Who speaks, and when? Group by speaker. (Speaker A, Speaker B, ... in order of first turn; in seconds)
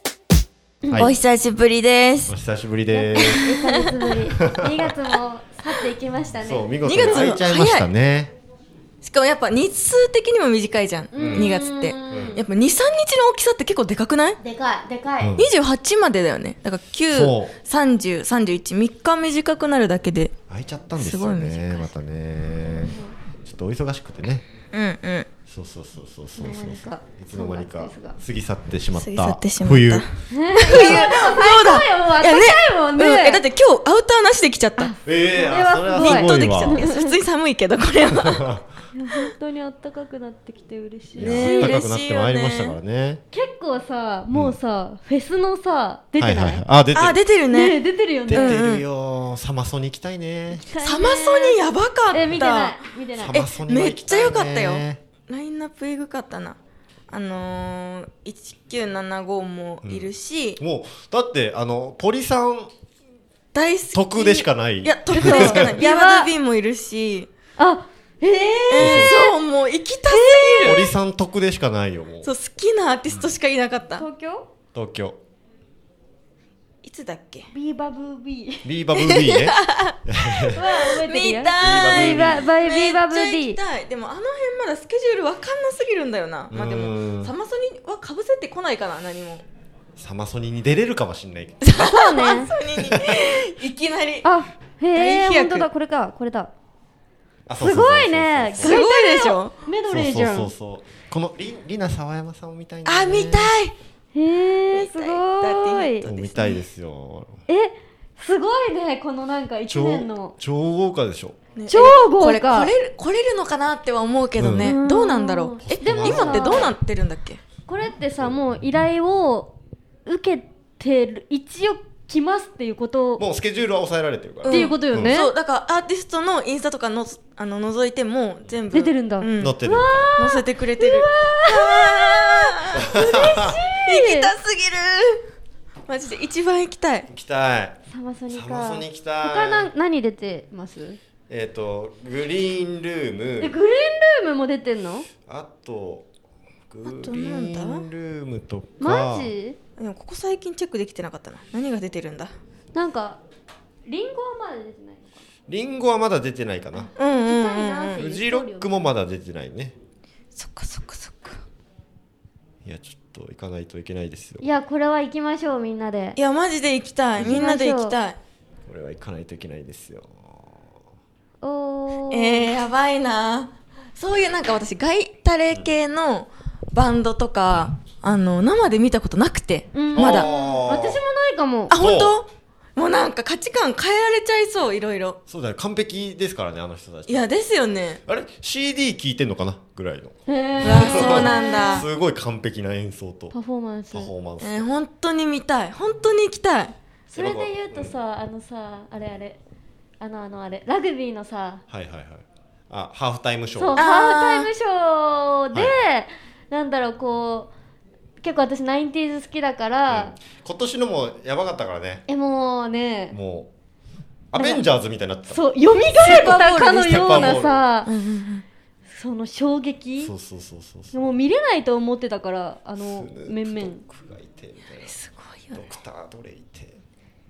Speaker A: 0.8-1.1, 2.3-3.6, 4.4-5.0, 6.4-8.3, 11.1-11.5, 12.1-12.4, 15.2-15.5, 17.1-17.6, 20.5-24.5, 25.5-30.1, 35.0-36.9, 38.1-38.7, 41.2-43.2, 44.3-44.6, 46.2-47.2, 48.3-50.7, 53.2-55.0, 59.8-62.7, 63.9-65.8, 68.8-69.2, 70.6-72.3, 74.7-75.2, 78.6-80.6, 81.6-82.5, 86.5-87.3, 90.0-91.9, 92.8-93.0, 97.5-98.8, 99.9-103.5, 106.0-107.4, 109.7-111.4, 114.4-114.8, 115.6-116.7, 123.2-125.2, 129.4-130.1, 132.7-133.6, 137.1-137.8, 138.3-139.7, 141.3-143.6, 145.3-146.1, 146.7-149.3, 155.5-156.9, 157.9-159.7, 162.6-164.4, 167.2-167.4, 168.7-170.6, 179.9-181.0, 181.8-182.2, 185.3-187.2, 188.1-193.3, 193.9-194.7, 197.1-197.9, 201.7-203.8, 209.9-212.0, 213.1-213.5, 214.3-215.5, 216.0-217.6, 220.0-221.0, 222.8-224.9, 225.5-226.8
Speaker B: 1.0-2.3, 3.1-4.1, 6.8-7.9, 9.0-14.4, 15.4-20.3, 21.0-21.9, 24.7-25.3, 28.9-34.9, 35.8-38.5, 41.2-42.8, 46.9-48.8, 50.8-56.6, 57.1-60.6, 63.5-67.3, 68.7-71.0, 72.2-74.0, 76.8-77.5, 79.0-89.5, 91.6-94.3, 94.9-95.7, 98.5-99.6, 102.8-103.8, 104.7-106.6, 111.6-117.4, 124.4-129.6, 130.2-132.9, 133.8-135.3, 135.9-137.1, 146.8-147.8, 149.8-152.3, 156.9-158.1, 160.3-161.4, 166.2-168.2, 172.1-180.3, 181.7-185.2, 187.1-188.0, 190.6-191.9, 194.4-196.7, 203.7-204.5, 215.7-218.4, 224.8-225.7
Speaker C: 2.9-7.4, 11.1-12.4, 14.4-15.4, 22.8-23.1, 26.4-28.2, 30.3-33.4, 34.8-37.2, 38.9-41.8, 43.3-46.6, 47.5-48.6, 50.5-53.4, 65.1-66.3, 67.6-69.3, 70.0-70.8, 74.0-74.5, 77.5-78.7, 80.5-83.6, 91.8-92.5, 94.2-96.5, 97.6-100.5, 104.1-106.1, 107.5-110.3, 111.7-112.7, 114.6-116.7, 117.7-119.5, 120.1-123.2, 124.5-125.3, 128.7-134.3, 137.9-141.0, 143.4-145.1, 148.8-149.6, 152.7-153.2, 153.8-155.2, 157.2-158.9, 164.4-166.2, 167.2-168.0, 171.4-172.5, 179.7-181.8, 190.3-191.8, 193.3-194.1, 197.1-199.4, 200.0-201.6, 203.6-207.5, 208.2-210.2, 212.1-213.2, 215.3-217.9, 218.9-220.1, 220.9-223.8